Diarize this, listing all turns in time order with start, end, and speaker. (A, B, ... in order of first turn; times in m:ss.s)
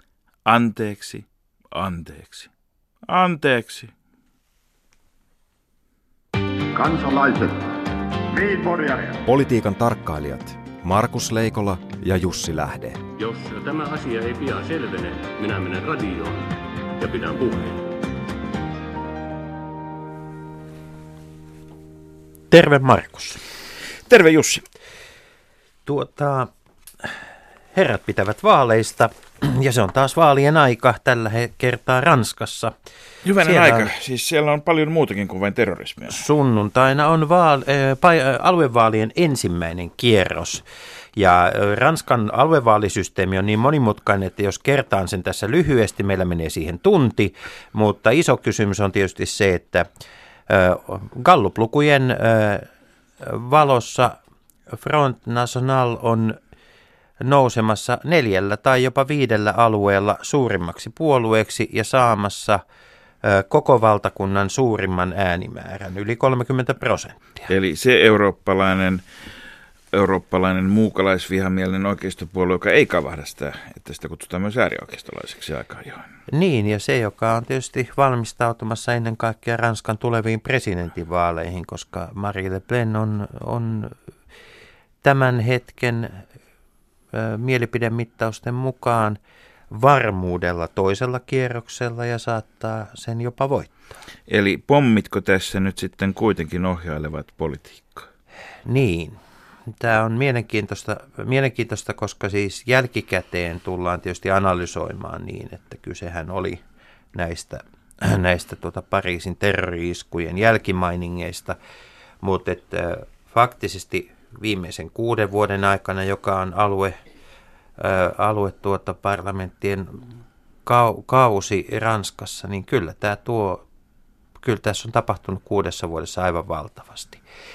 0:00.4-0:02.5 A
0:03.1-0:03.9 A
0:06.7-0:07.8 B
0:08.3-0:09.2 B
0:09.3-0:13.0 C
0:13.2-0:17.8 D
0:22.5-0:23.4 E
0:24.1-0:24.6 A
0:25.9-0:26.5 E
0:27.7-0:32.7 E
0:33.2-0:36.2 A
0:33.4-0:33.9 E
0:36.1-0:40.6 E
0:41.2-0:49.9 E
0:50.5-0:52.7 E
0:53.2-0:54.2 E
0:54.7-0:56.4 E
0:57.2-1:02.6 E
1:03.2-1:07.5 E
1:07.5-1:09.0 A
1:09.9-1:16.0 A
1:16.3-1:23.9 E
1:25.0-1:26.2 E
1:27.1-1:29.2 E
1:29.7-1:34.0 E
1:34.3-1:38.1 A
1:38.6-1:39.2 E
1:39.8-1:46.6 E
1:47.1-1:51.6 E
1:52.2-1:57.0 E
1:57.8-2:00.0 E
2:00.7-2:03.6 E
2:04.4-2:07.2 E